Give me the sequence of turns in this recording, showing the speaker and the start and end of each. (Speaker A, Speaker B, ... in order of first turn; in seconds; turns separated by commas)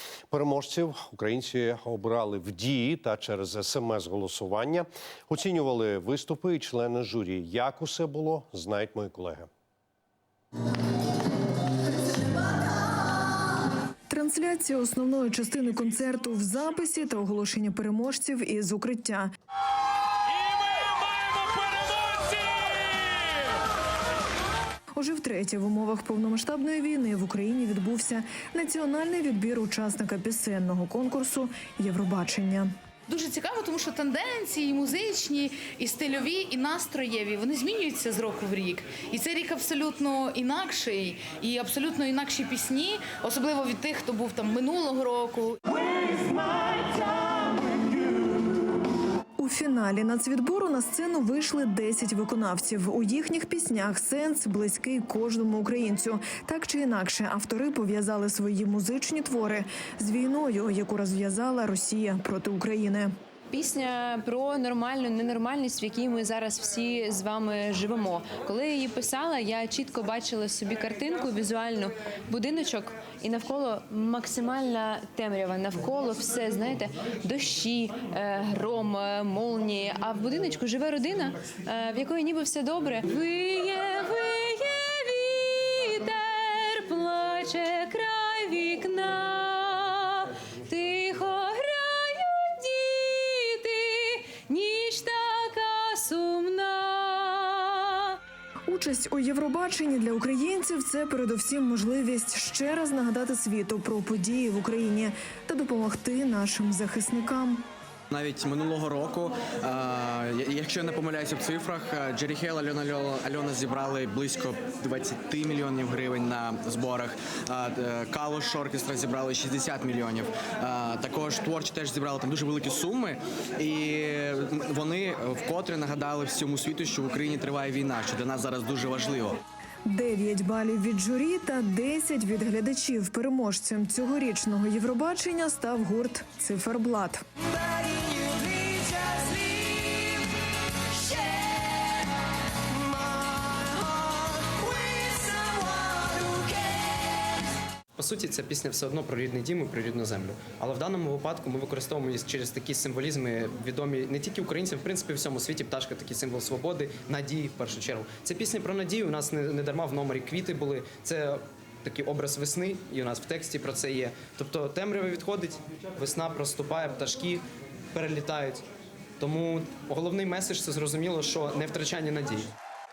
Speaker A: 0.3-9.5, Speaker B: 14.1-19.3, Speaker B: 25.0-32.7, Speaker C: 33.1-45.6, Speaker B: 49.4-63.1, Speaker D: 63.5-98.2, Speaker B: 98.7-107.6, Speaker E: 108.1-129.4, Speaker B: 129.9-137.2, Speaker E: 137.9-139.8, Speaker E: 144.6-146.5, Speaker F: 148.0-168.7, Speaker F: 169.2-172.5